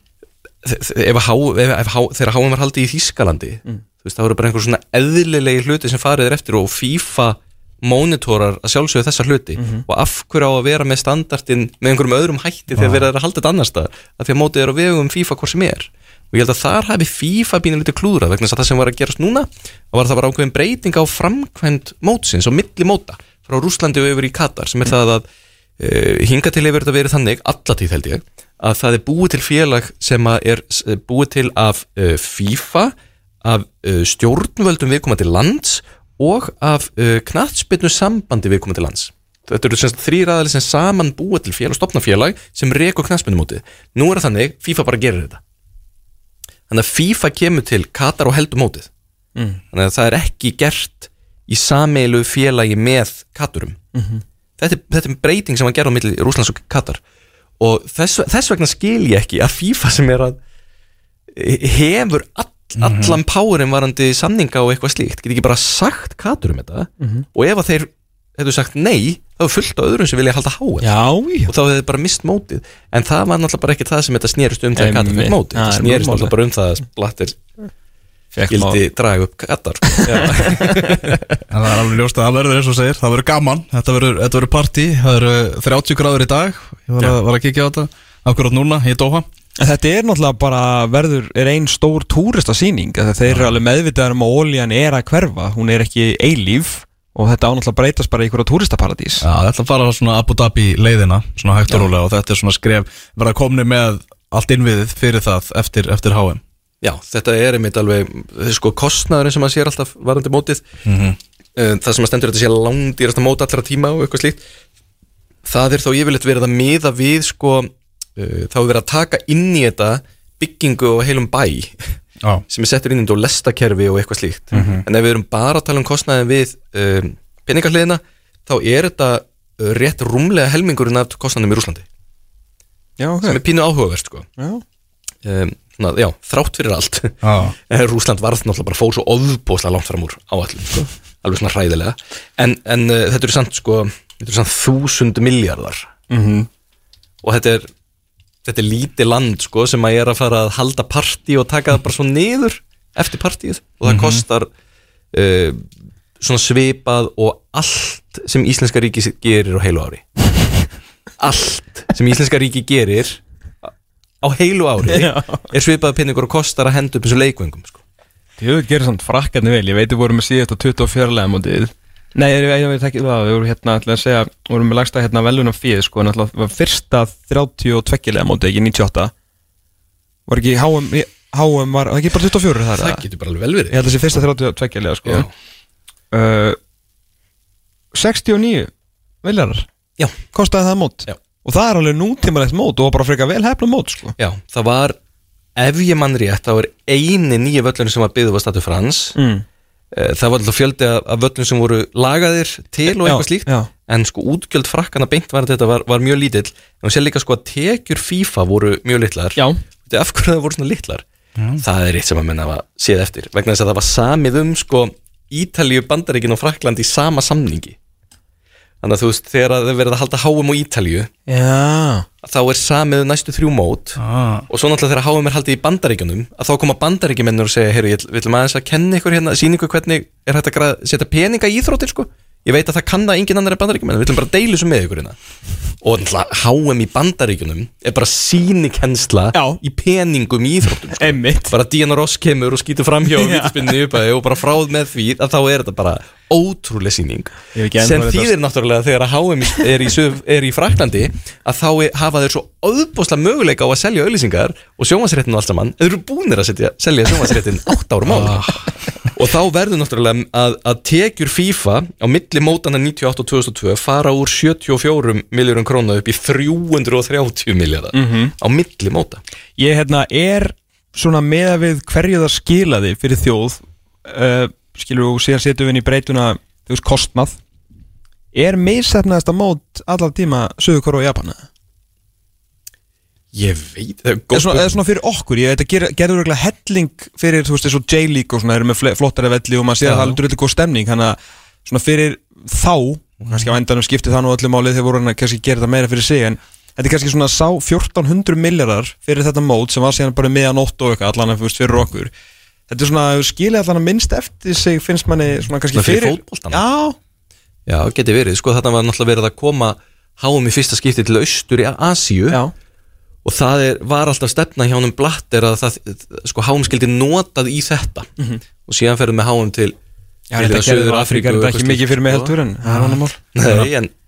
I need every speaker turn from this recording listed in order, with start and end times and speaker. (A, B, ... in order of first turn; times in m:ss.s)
0:00.6-0:25.2 A
0:09.6-0:09.8 B
0:12.8-0:13.0 C
0:25.8-0:45.4 A
0:46.7-0:48.9 A
0:49.4-0:49.6 B
0:49.7-0:53.8 A
0:53.9-0:54.2 B
0:54.6-0:57.0 A
0:57.6-1:00.4 A
1:01.3-1:10.9 A
1:02.8-1:03.2 C
1:07.0-1:07.2 B
1:10.8-1:11.5 B
1:11.5-1:17.4 A
1:14.8-1:16.3 B
1:18.3-1:18.8 B
1:18.5-1:21.3 A
1:19.9-1:21.2 B
1:21.5-1:29.2 C
1:29.6-1:39.2 B
1:33.3-1:33.6 C
1:39.2-1:46.4 C
1:46.8-1:50.6 A
1:50.8-1:51.2 C
1:51.6-1:54.4 A
1:55.4-2:01.9 A
2:02.5-2:11.8 A
2:04.5-2:04.8 B
2:04.5-2:04.8 C
2:13.0-2:13.4 B
2:13.2-2:14.3 A
2:15.2-2:25.9 A
2:17.2-2:17.5 C
2:26.1-2:26.5 B
2:27.2-2:27.7 A
2:28.4-2:34.5 A
2:33.9-2:34.2 C
2:35.1-2:35.6 A
2:36.2-2:40.0 A
2:41.2-2:43.7 A
2:44.2-2:47.8 A
2:44.9-2:45.5 B
2:48.4-2:59.1 B
3:00.3-3:03.0 B
3:02.7-3:03.8 A
3:03.7-3:05.3 B
3:06.1-3:06.6 B
3:07.9-3:08.7 B
3:09.2-3:09.7 B
3:10.2-3:14.1 B
3:14.2-3:15.0 A
3:15.6-3:19.2 A
3:19.1-3:19.4 B
3:19.9-3:31.0 A
3:23.0-3:23.7 B
3:31.4-3:31.6 C
3:31.6-3:37.8 A
3:38.8-3:41.1 A
3:41.3-3:42.1 B
3:42.2-3:55.2 A
3:44.0-3:44.4 C
3:55.8-4:29.2 A
3:59.3-3:59.6 B
4:01.0-4:01.6 B
4:03.2-4:03.8 B
4:07.5-4:08.3 B
4:18.0-4:18.7 C
4:27.9-4:28.3 B
4:29.6-4:37.4 B
4:38.3-4:41.4 B
4:43.3-4:44.8 A
4:44.3-5:02.1 B
4:49.8-4:50.2 A
5:02.7-5:07.0 B
5:05.7-5:06.6 A
5:07.7-5:12.4 A
5:13.2-5:18.1 A
5:18.6-5:19.7 A
5:20.3-5:23.2 B
5:20.3-5:22.3 A
5:22.6-5:23.7 C
5:23.3-5:23.9 A